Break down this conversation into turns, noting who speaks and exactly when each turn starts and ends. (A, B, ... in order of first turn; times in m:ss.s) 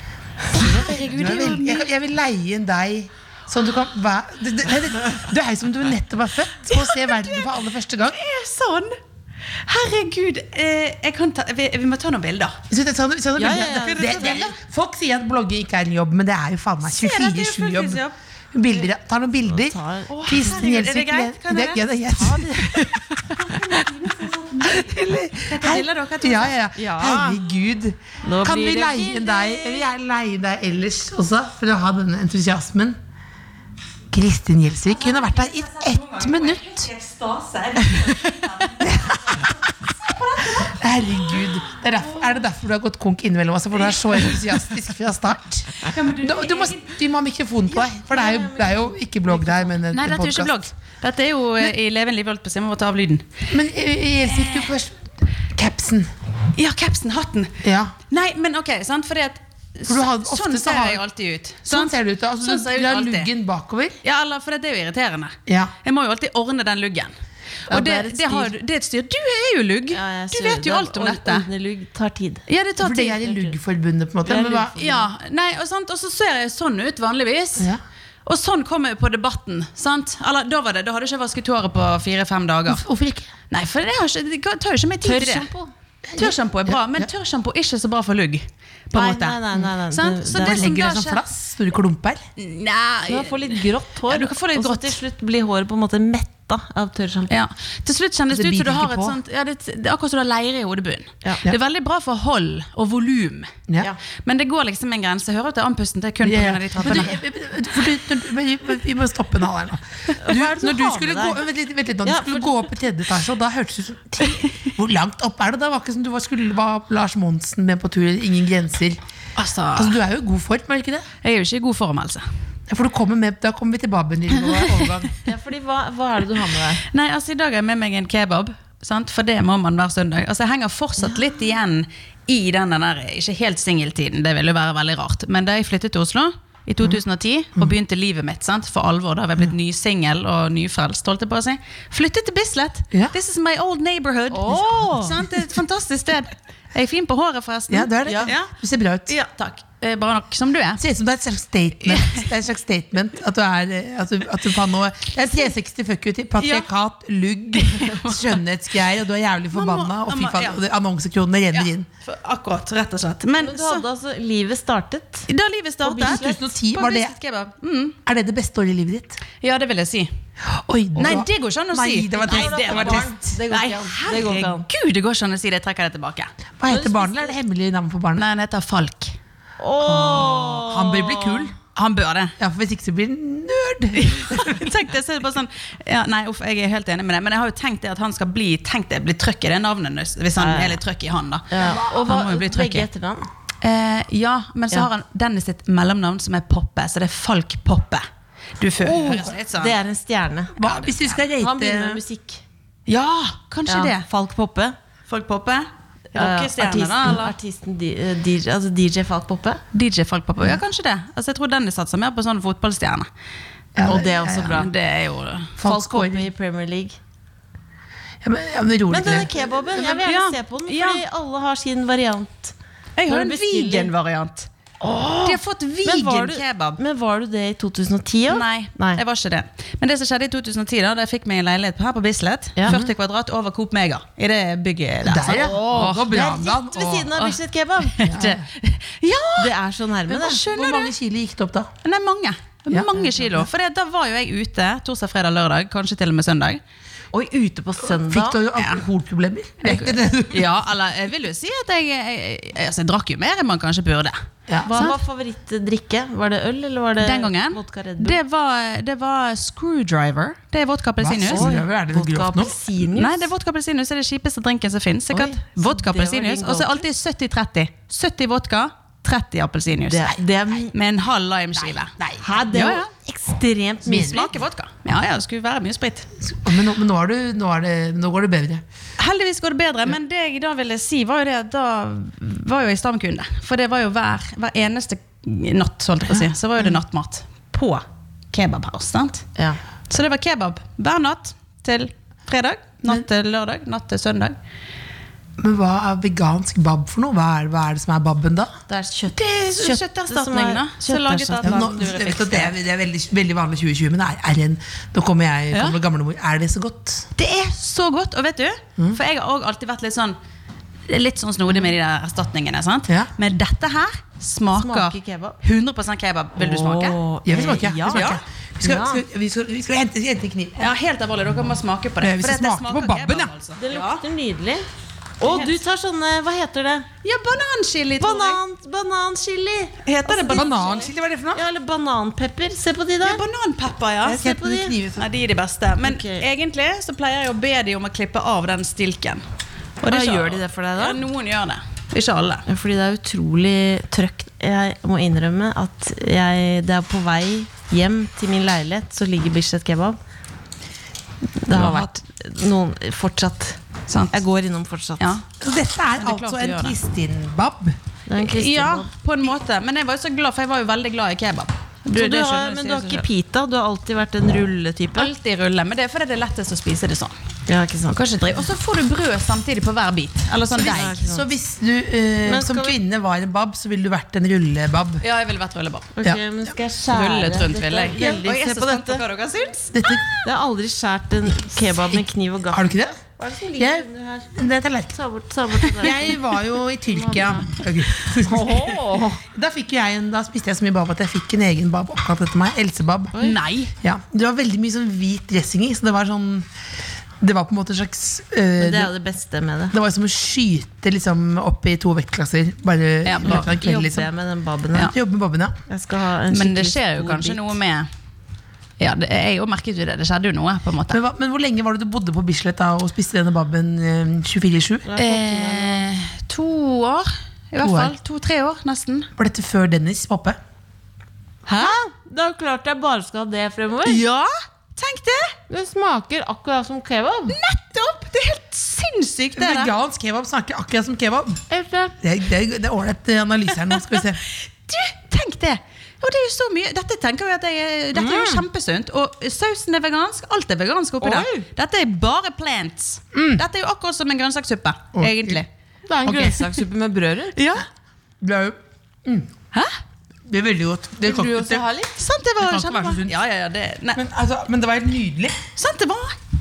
0:00.5-0:01.9 A
0:00.5-0:08.2 B
0:06.7-0:07.6 A
0:08.1-0:08.9 A
0:09.6-0:12.6 A
0:12.7-0:18.0 B
0:13.4-0:14.3 C
0:13.6-0:14.5 A
0:16.8-0:18.1 A
0:18.5-0:23.0 B
0:19.5-0:20.5 C
0:20.1-0:27.2 A
0:22.2-0:22.7 C
0:24.6-0:33.0 B
0:26.8-0:27.4 C
0:28.2-0:29.8 C
0:34.1-0:36.9 B
0:34.9-0:41.5 A
0:37.8-0:39.5 B
0:40.6-0:50.6 B
0:43.9-0:44.5 A
0:45.8-0:46.9 A
0:47.8-0:49.7 C
0:49.9-0:53.4 A
0:53.5-0:56.1 B
0:56.6-1:03.3 A
0:57.6-0:57.9 B
0:59.9-1:01.0 B
1:01.7-1:04.0 B
1:04.0-1:07.1 A
1:05.5-1:05.7 B
1:07.7-1:08.5 C
1:07.7-1:11.5 A
1:09.9-1:12.4 C
1:12.5-1:13.3 A
1:12.8-1:15.1 B
1:14.2-1:14.8 C
1:14.4-1:17.7 A
1:18.2-1:22.8 A
1:22.7-1:23.3 B
1:23.5-1:25.5 A
1:25.0-1:25.7 C
1:26.1-1:27.1 B
1:26.2-1:31.2 A
1:28.9-1:30.7 C
1:30.3-1:32.2 B
1:32.4-1:35.0 A
1:33.1-1:37.4 C
1:37.3-1:43.6 A
1:38.3-1:39.2 B
1:44.2-1:47.2 A
1:46.2-1:59.0 B
1:46.8-1:47.1 C
1:50.2-1:51.4 C
1:52.0-1:52.7 C
1:59.4-2:00.0 A
1:59.7-2:01.1 B
2:01.2-2:02.2 A
2:02.7-2:05.1 B
2:05.2-2:06.8 C
2:06.8-2:28.5 A
2:24.3-2:25.2 C
2:27.7-2:29.1 B
2:28.0-2:28.3 C
2:29.1-2:30.8 A
2:30.8-2:41.9 B
2:31.9-2:32.2 A
2:36.4-2:36.7 A
2:37.5-2:38.4 A
2:39.5-2:40.6 A
2:41.5-2:43.8 A
2:43.4-2:45.3 C
2:45.3-2:48.0 A
2:45.8-2:47.1 B
2:45.9-2:46.3 C
2:48.0-2:49.2 B
2:49.4-2:50.1 A
2:50.4-2:53.4 B
2:51.0-2:56.3 A
2:52.2-2:54.6 C
2:56.6-2:58.2 B
2:56.7-2:57.3 C
2:58.2-2:59.2 A
2:59.6-3:01.4 C
2:59.8-3:01.6 B
3:01.7-3:02.3 A
3:02.4-3:04.6 B
3:03.9-3:12.9 A
3:10.4-3:10.8 C
3:11.5-3:13.3 C
3:13.6-3:18.0 A
3:18.6-3:19.8 A
3:18.8-3:20.6 C
3:18.9-3:19.3 B
3:20.6-3:22.0 B
3:20.6-3:21.2 A
3:21.4-3:22.4 C
3:22.9-3:24.0 A
3:23.7-3:24.8 C
3:25.1-3:27.3 A
3:26.1-3:29.6 C
3:29.7-3:33.1 A
3:33.8-3:34.7 B
3:33.8-3:34.7 C
3:34.4-3:35.5 A
3:35.6-3:36.3 B
3:35.6-3:37.0 C
3:38.2-3:40.0 B
3:38.9-3:42.5 C
3:39.9-3:41.0 A
3:43.0-3:44.5 A
3:43.1-3:43.9 C
3:44.8-3:49.0 C
3:45.2-3:46.8 A
3:48.3-3:56.0 A
3:52.6-3:52.8 C
3:55.0-3:57.2 B
3:55.2-3:58.3 C
3:57.8-3:59.5 A
3:58.0-3:58.4 B
3:59.4-4:00.4 C
4:00.1-4:00.9 A
4:00.4-4:01.7 B
4:01.8-4:06.6 A
4:07.1-4:08.4 C
4:07.9-4:10.5 B
4:08.6-4:08.8 A
4:09.6-4:15.0 A
4:14.5-4:14.8 B
4:14.6-4:18.2 C
4:17.0-4:21.5 A
4:21.0-4:22.6 B
4:21.3-4:23.3 C
4:23.0-4:30.2 A
4:25.1-4:26.8 C
4:29.9-4:30.7 C
4:30.7-4:32.9 A
4:32.0-4:32.2 B
4:32.2-4:34.3 C
4:33.8-4:34.3 B
4:33.9-4:36.1 A
4:36.2-4:38.6 B
4:39.0-4:49.2 A
4:49.9-4:54.4 A
4:55.4-4:58.5 B
4:58.7-5:02.0 C
4:59.1-5:02.5 A
5:01.4-5:07.1 B
5:05.5-5:05.8 A
5:07.2-5:10.2 A
5:10.9-5:17.0 A
5:14.5-5:15.4 C
5:16.4-5:19.0 C
5:17.2-5:20.7 B
5:17.9-5:18.2 A
5:20.6-5:24.0 A
5:22.0-5:23.3 B
5:23.6-5:24.7 C
5:25.2-5:26.9 C
5:25.2-5:25.6 A
5:27.0-5:28.4 A
5:28.0-5:33.2 C
5:29.8-5:30.9 A
5:30.3-5:31.4 B
5:33.0-5:34.3 A
5:34.0-5:35.0 B
5:34.1-5:34.7 C
5:34.9-5:39.2 A
5:35.8-5:36.2 C
5:39.8-5:42.4 A
5:39.8-5:41.0 C
5:42.5-5:50.0 C
5:51.4-5:53.6 C
5:51.5-5:51.9 A
5:53.9-5:54.2 A
5:54.1-5:55.2 C
5:55.0-5:55.2 A
5:55.4-5:57.8 B
5:56.0-5:56.8 A
5:58.1-5:58.9 C
5:58.2-6:03.0 A
6:01.9-6:05.1 C
6:05.0-6:07.2 A
6:07.5-6:08.2 C
6:07.9-6:11.0 A
6:10.6-6:11.3 C
6:10.6-6:15.0 B
6:12.2-6:12.8 C
6:15.0-6:15.9 A
6:16.0-6:19.0 C
6:16.9-6:20.2 A
6:19.7-6:20.0 B
6:20.2-6:24.4 C
6:21.8-6:23.0 B
6:23.6-6:24.9 B
6:24.9-6:26.2 C
6:25.8-6:33.2 B
6:26.9-6:27.5 C
6:28.1-6:29.2 C
6:33.2-6:33.7 A
6:33.8-6:36.5 B
6:37.2-6:38.9 B
6:38.6-6:39.7 C
6:39.7-6:44.1 B
6:43.0-6:43.6 A
6:43.2-6:44.9 C
6:44.7-6:45.6 B
6:45.7-6:47.5 C
6:46.3-6:47.9 A
6:48.8-6:51.0 A
6:50.9-6:54.9 B
6:54.8-6:55.8 C
6:55.0-6:59.1 A
6:57.6-6:57.9 B
6:59.2-7:00.4 B
7:01.5-7:04.0 C
7:03.8-7:05.4 A
7:05.5-7:07.4 C
7:07.3-7:09.7 A
7:09.4-7:11.4 B
7:11.5-7:11.9 C
7:12.0-7:14.2 B
7:14.3-7:25.5 A
7:17.9-7:18.4 C
7:21.0-7:21.5 C
7:23.1-7:23.4 B
7:24.9-7:25.4 B
7:25.9-7:27.4 C
7:26.0-7:26.4 B
7:27.4-7:27.6 A
7:28.2-7:29.3 B
7:30.3-7:31.6 B
7:31.0-7:32.0 C
7:32.0-7:34.0 A
7:32.4-7:33.1 B
7:33.9-7:35.4 B
7:35.6-7:36.2 A